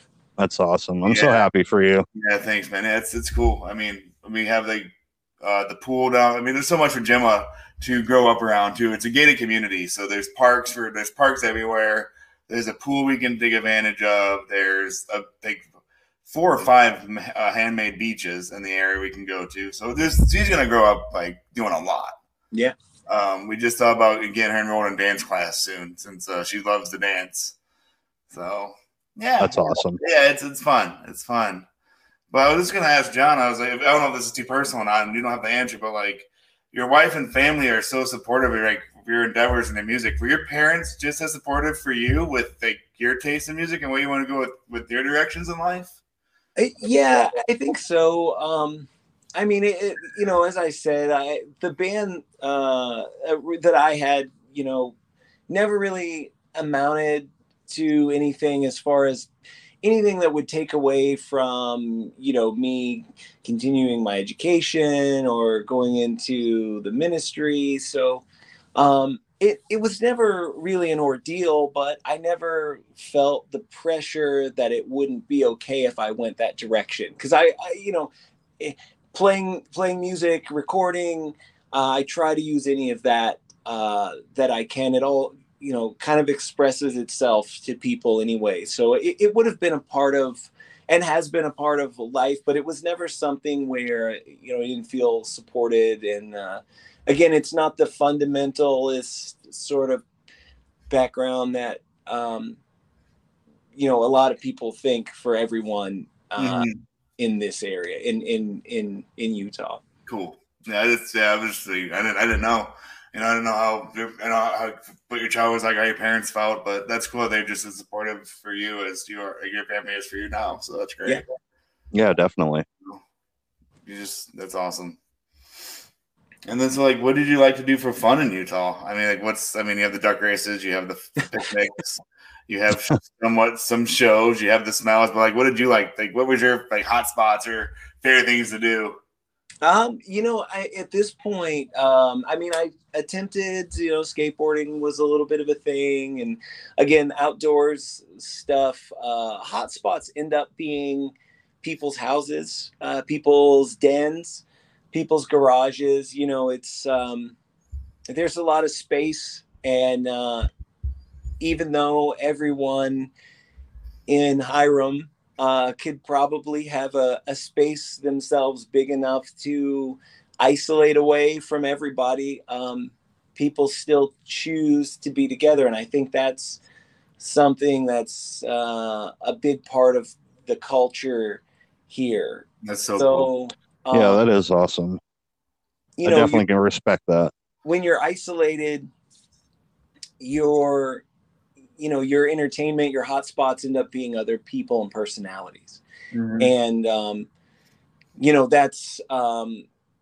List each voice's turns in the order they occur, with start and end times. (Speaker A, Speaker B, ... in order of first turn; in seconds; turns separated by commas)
Speaker A: 0.4-2.0, Speaker B: 1.1-1.4, Speaker B: 2.1-15.7, Speaker B: 16.2-22.2, Speaker B: 23.1-27.6, Speaker B: 28.3-31.6, Speaker A: 29.4-30.0, Speaker B: 32.3-46.0, Speaker C: 46.5-54.9, Speaker C: 55.5-59.3, Speaker C: 59.8-100.0, Speaker C: 100.9-102.6, Speaker C: 103.7-109.8, Speaker B: 106.4-106.8, Speaker B: 110.0-121.2, Speaker A: 121.9-122.6, Speaker B: 123.8-125.0, Speaker B: 126.5-139.0, Speaker C: 139.6-157.3, Speaker C: 158.1-160.5, Speaker C: 161.4-163.1, Speaker C: 164.1-176.6, Speaker C: 177.2-184.2, Speaker B: 182.6-183.3, Speaker A: 183.9-185.0, Speaker C: 186.0-186.4, Speaker A: 186.0-187.3, Speaker C: 187.6-188.9, Speaker C: 190.2-191.0, Speaker C: 191.8-195.8, Speaker B: 196.1-196.5, Speaker C: 196.4-197.3, Speaker C: 198.2-199.7